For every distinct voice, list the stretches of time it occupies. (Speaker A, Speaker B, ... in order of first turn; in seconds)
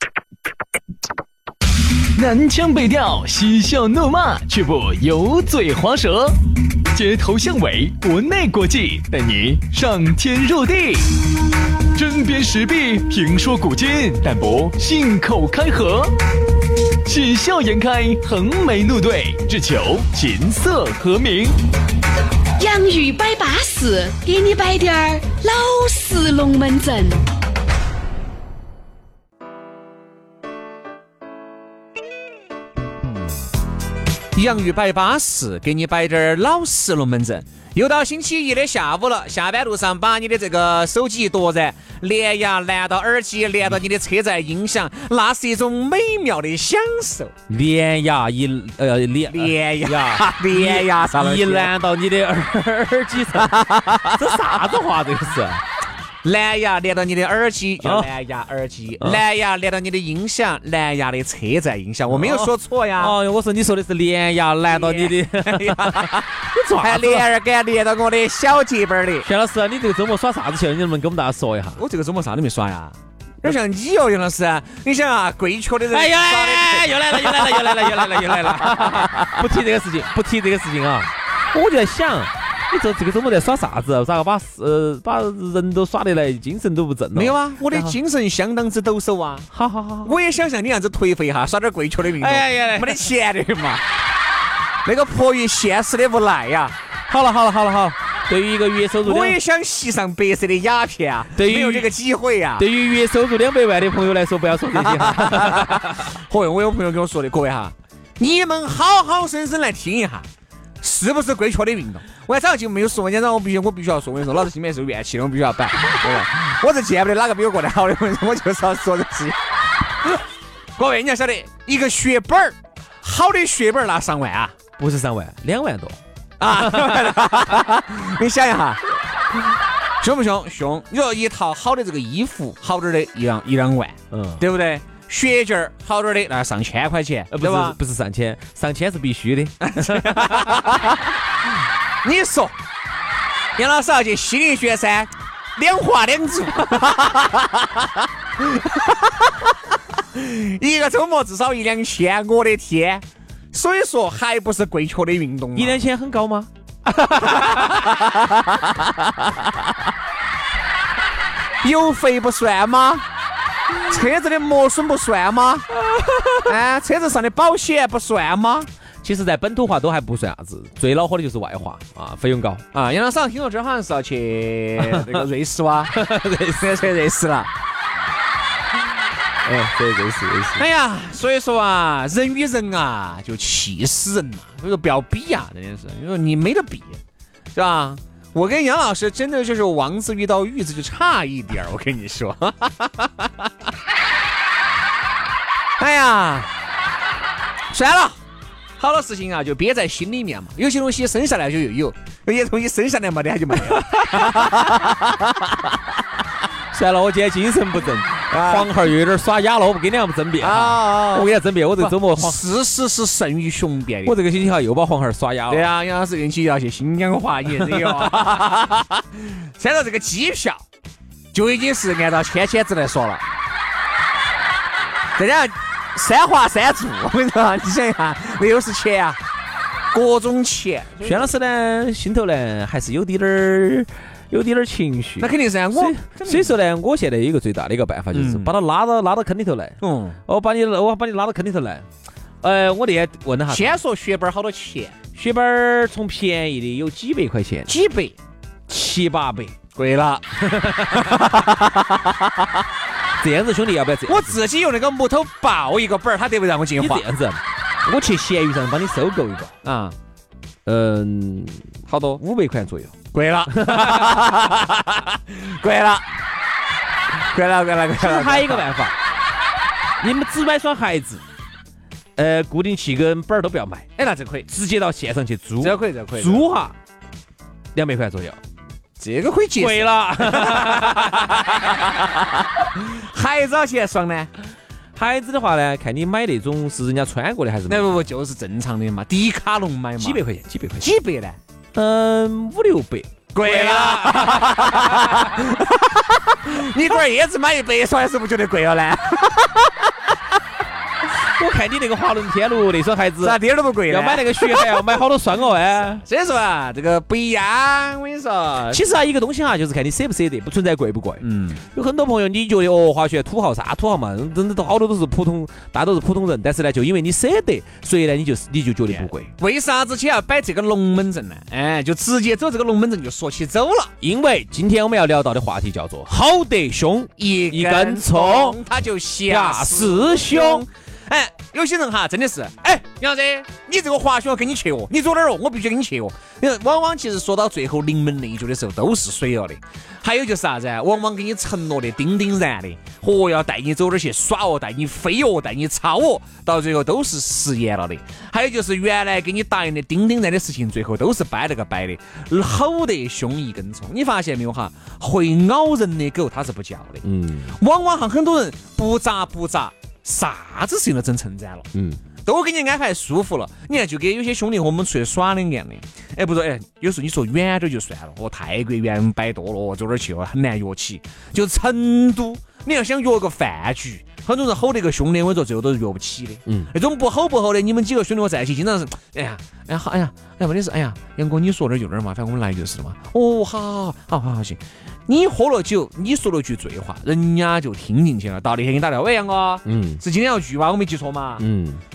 Speaker A: 2.1-6.4, 6.9-11.2, 11.9-16.2, 17.1-21.6
Speaker B: 22.6-27.2
Speaker C: 34.3-47.3, 49.3-51.7, 53.3-54.6, 56.2-63.2, 64.7-69.3, 71.8-79.2, 87.1-89.5, 90.0-93.8, 94.8-96.8, 99.0-102.7, 104.8-110.3, 110.8-119.4, 120.8-124.5, 126.4-128.8, 130.0-137.8, 139.6-141.1, 142.0-142.6, 143.6-147.9, 148.4-149.5, 150.1-155.8, 157.1-158.6, 161.6-163.0, 163.9-165.8, 166.4-168.7, 172.7-176.0, 176.6-177.5, 180.6-187.0, 187.6-193.5, 195.8-196.5, 197.7-198.2, 198.8-205.5, 208.3-208.7, 210.4-214.2, 215.5-220.6, 221.3-223.2, 225.2-229.2, 229.9-231.3, 235.2-236.6, 238.1-238.5, 239.8-240.2, 243.5-244.9, 247.7-248.2, 249.8-250.2, 250.9-252.1, 254.1-257.1, 259.6-259.9, 261.9-262.2, 263.1-266.1, 267.3-268.7, 274.0-274.5, 275.6-276.5, 279.0-282.1, 282.7-284.3, 287.7-290.2, 290.8-291.4, 293.3-299.9, 303.2-305.0, 306.0-308.8, 311.2-311.6, 318.9-323.9, 327.2-361.7, 362.2-391.5
Speaker D: 47.5-55.6, 57.8-58.1, 62.1-67.3, 69.2-71.8, 75.9-88.0, 89.5-90.2, 92.2-93.0, 97.1-99.4, 101.3-101.9, 102.6-106.1, 124.8-126.0, 126.5-127.3, 134.1-134.4, 137.3-140.8, 155.6-158.1, 158.9-159.6, 169.0-172.6, 174.8-175.2, 175.9-176.9, 179.4-180.6, 203.6-205.2, 206.7-212.4, 214.1-215.7, 217.6-218.7, 231.0-241.9, 242.4-243.8, 245.2-247.7, 248.7-249.6, 250.4-251.4, 253.2-254.4, 256.8-259.6, 260.7-261.6, 262.2-262.9, 263.5-264.4, 268.0-269.0, 270.0-271.2, 272.2-273.9, 274.5-276.7, 277.8-278.4, 279.6-282.2, 285.0-288.0, 290.0-290.9, 291.8-295.4, 301.2-306.1, 308.7-319.3, 324.0-328.6, 329.3-330.6, 357.0-357.5, 361.7-362.0, 389.6-390.0, 391.4-391.8